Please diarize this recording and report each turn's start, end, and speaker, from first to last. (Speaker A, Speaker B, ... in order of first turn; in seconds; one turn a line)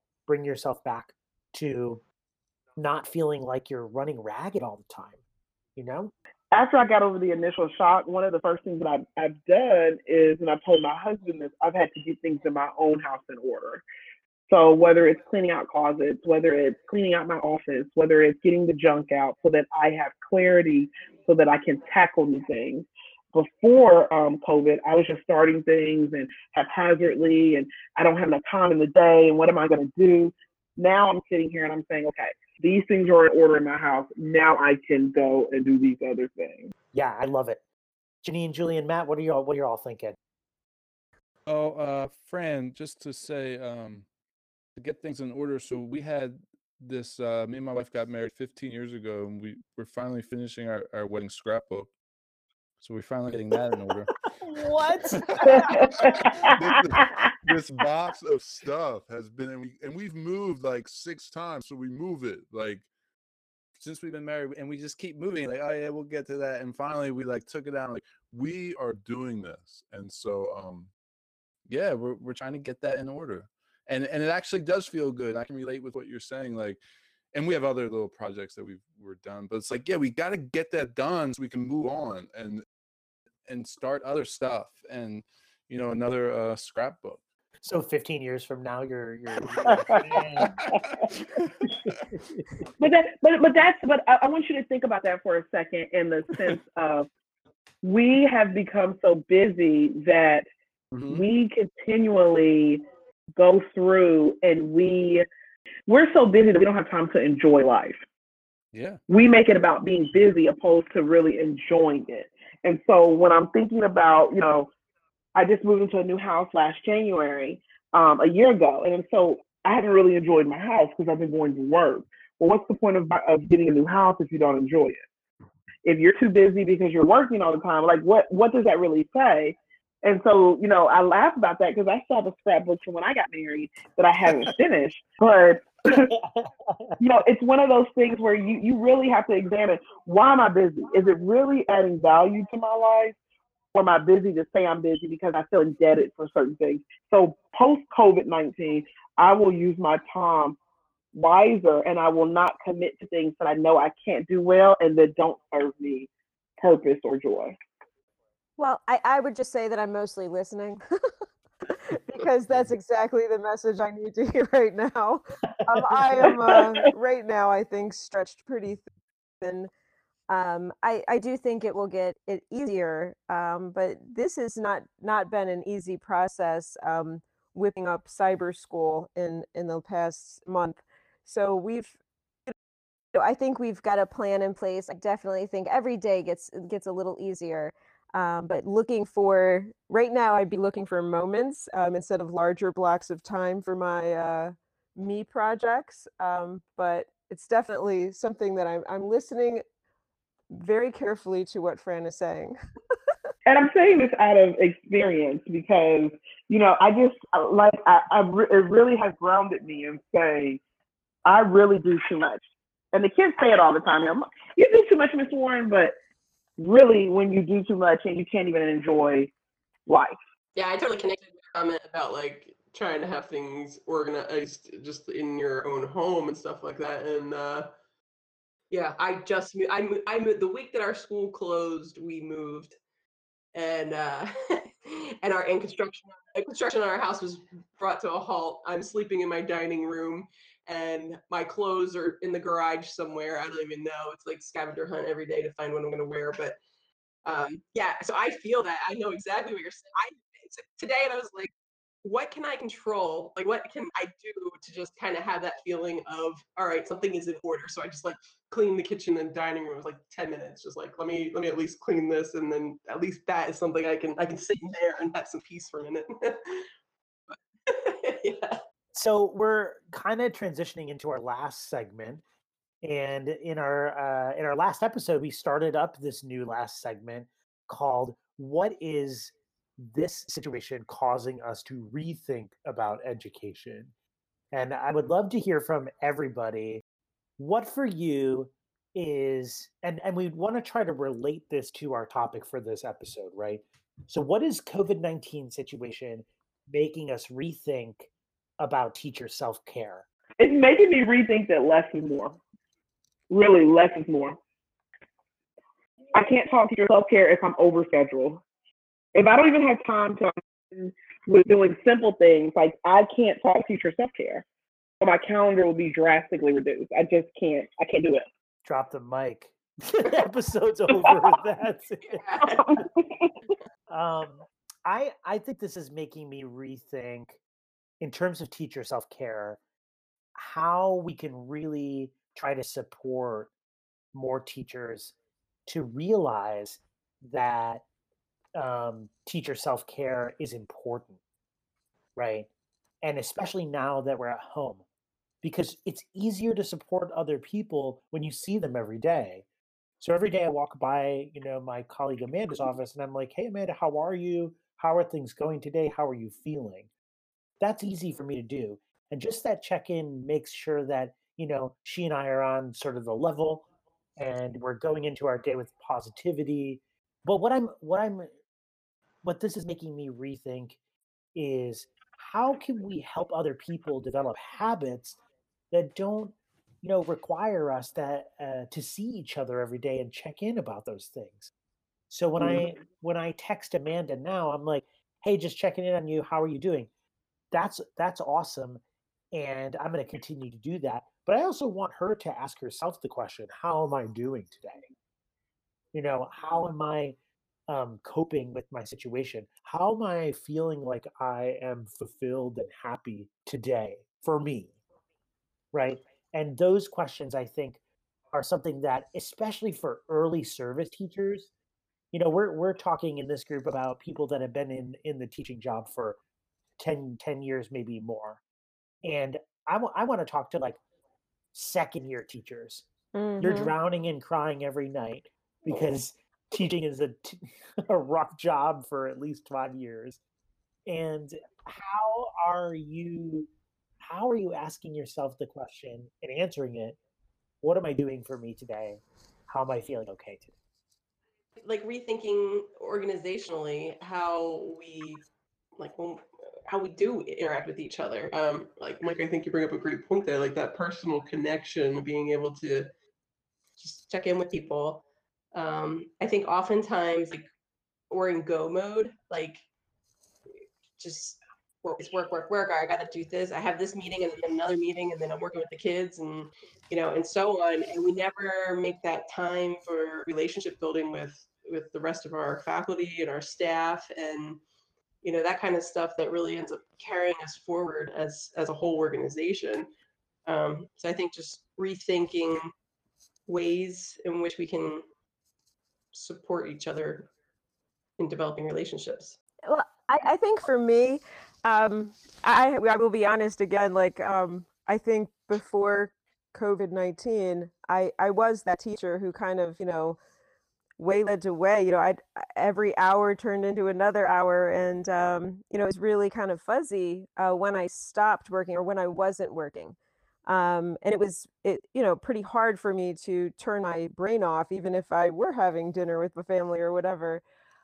Speaker A: 0.3-2.0
Speaker A: 2.8-5.2
Speaker A: 5.8-6.1
Speaker B: 6.5-13.8
Speaker B: 14.5-36.7
Speaker A: 36.9-37.6
Speaker A: 38.2-40.1
Speaker C: 41.5-44.1
Speaker C: 44.8-51.9
Speaker C: 52.8-54.1
Speaker D: 54.5-56.1
Speaker A: 55.1-55.6
Speaker B: 55.5-57.0
Speaker C: 56.0-62.9
Speaker C: 63.8-70.9
Speaker C: 71.7-76.8
Speaker C: 77.3-82.6
Speaker C: 83.5-87.2
Speaker A: 87.6-90.6
Speaker B: 89.7-91.0
Speaker C: 90.4-91.7
Speaker A: 91.7-92.5
Speaker B: 92.8-97.1
Speaker B: 97.8-100.5
Speaker C: 100.9-101.2
Speaker B: 101.1-102.8
Speaker B: 103.4-105.2
Speaker B: 105.9-108.0
Speaker C: 108.7-109.0
Speaker B: 109.1-114.7
Speaker B: 115.3-125.0
Speaker B: 125.8-136.1
Speaker A: 135.9-136.9
Speaker B: 137.0-143.2
Speaker B: 143.7-150.6
Speaker B: 151.1-157.6
Speaker D: 158.6-160.8
Speaker D: 161.7-168.9
Speaker A: 165.9-166.2
Speaker B: 166.2-166.8
Speaker D: 169.4-169.7
Speaker D: 170.3-182.5
Speaker D: 183.1-199.6
Speaker D: 200.5-202.6
Speaker B: 203.5-210.6
Speaker B: 211.2-212.4
Speaker B: 212.9-215.9
Speaker B: 216.6-219.3
Speaker B: 219.9-220.2
Speaker E: 220.6-227.7
Speaker E: 228.7-232.8
Speaker E: 233.5-246.6
Speaker E: 247.2-251.5
Speaker E: 252.0-266.7
Speaker E: 267.3-268.6
Speaker A: 268.9-272.2
Speaker A: 272.8-283.9
Speaker A: 284.5-286.8
Speaker A: 287.4-300.1
Speaker B: 300.4-302.4
Speaker B: 303.3-304.4
Speaker B: 306.1-308.4
Speaker B: 309.1-314.4
Speaker B: 315.0-318.2
Speaker A: 318.6-322.2
Speaker E: 322.1-322.7
Speaker B: 322.5-323.3
Speaker A: 323.9-327.4
Speaker A: 328.0-329.6
Speaker A: 330.3-333.5
Speaker A: 334.1-335.1
Speaker A: 335.7-337.8
Speaker A: 338.5-341.2
Speaker A: 342.1-342.5
Speaker A: 343.0-344.8
Speaker A: 345.4-349.4
Speaker A: 350.0-356.9
Speaker A: 357.6-368.3
Speaker A: 369.2-370.8
Speaker A: 371.3-375.2
Speaker A: 375.7-381.5
Speaker A: 382.1-386.9
Speaker A: 387.5-388.8
Speaker A: 389.3-394.9
Speaker A: 395.9-397.1
Speaker A: 397.7-404.7
Speaker A: 405.7-407.8
Speaker A: 408.3-411.5
Speaker A: 412.1-416.2
Speaker A: 416.8-418.4
Speaker A: 419.0-420.8
Speaker A: 421.5-422.9
Speaker D: 423.1-423.7
Speaker A: 423.4-430.2
Speaker A: 430.9-433.5
Speaker A: 434.0-437.0
Speaker A: 437.6-440.5
Speaker E: 441.6-445.2
Speaker E: 445.8-452.9
Speaker E: 453.8-457.5
Speaker E: 458.1-459.6
Speaker E: 461.0-474.6
Speaker E: 475.2-479.9
Speaker E: 480.4-482.7
Speaker E: 483.5-485.0
Speaker E: 486.1-487.3
Speaker E: 488.2-489.4
Speaker D: 489.7-500.2
Speaker D: 501.0-517.4